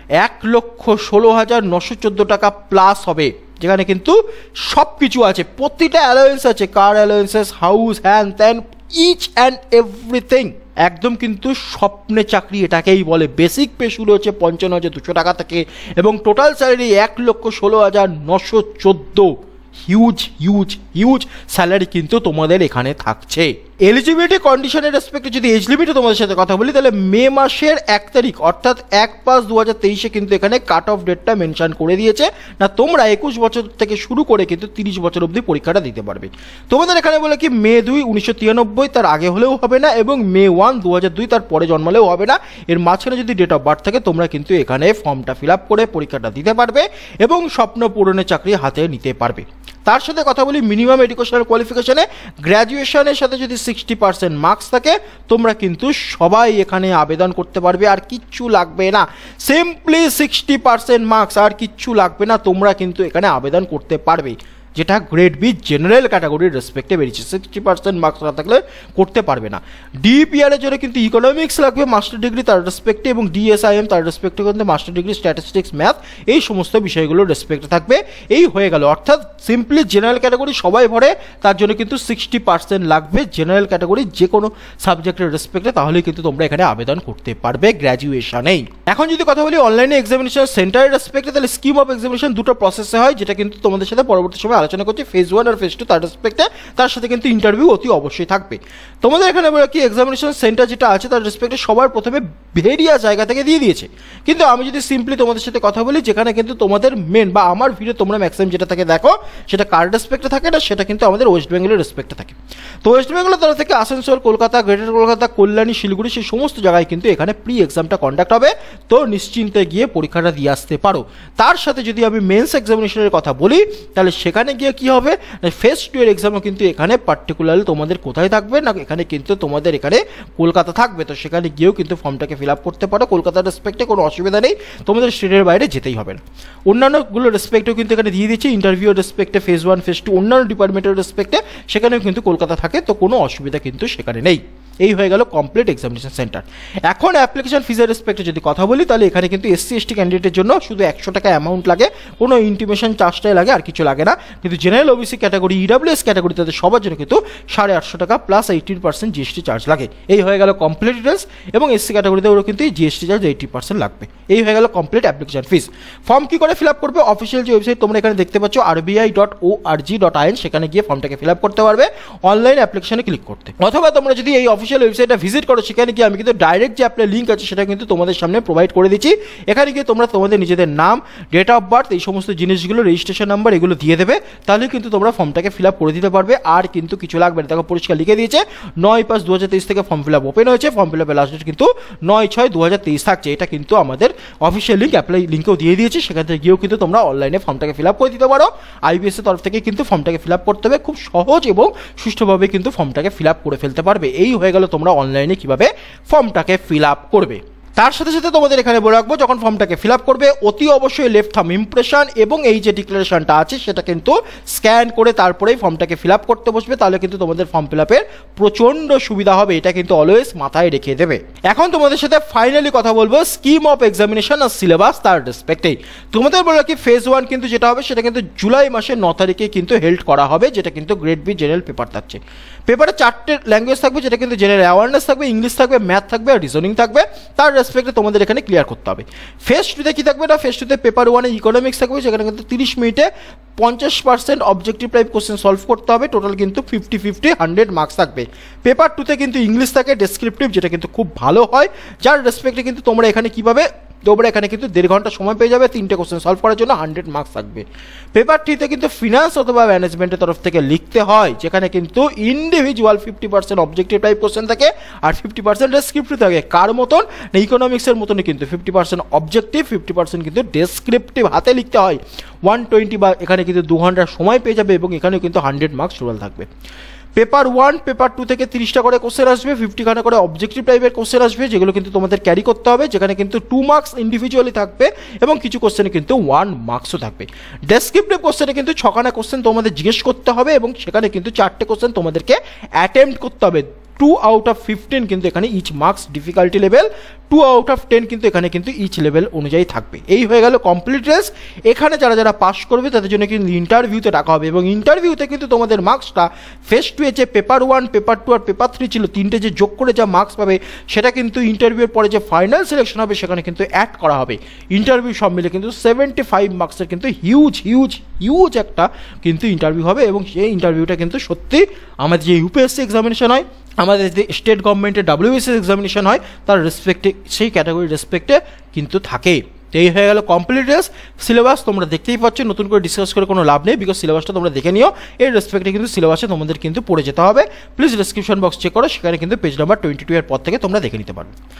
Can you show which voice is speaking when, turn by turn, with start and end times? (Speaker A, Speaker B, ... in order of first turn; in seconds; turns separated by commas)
Speaker A: 0.2-276.5, Speaker A: 277.2-341.4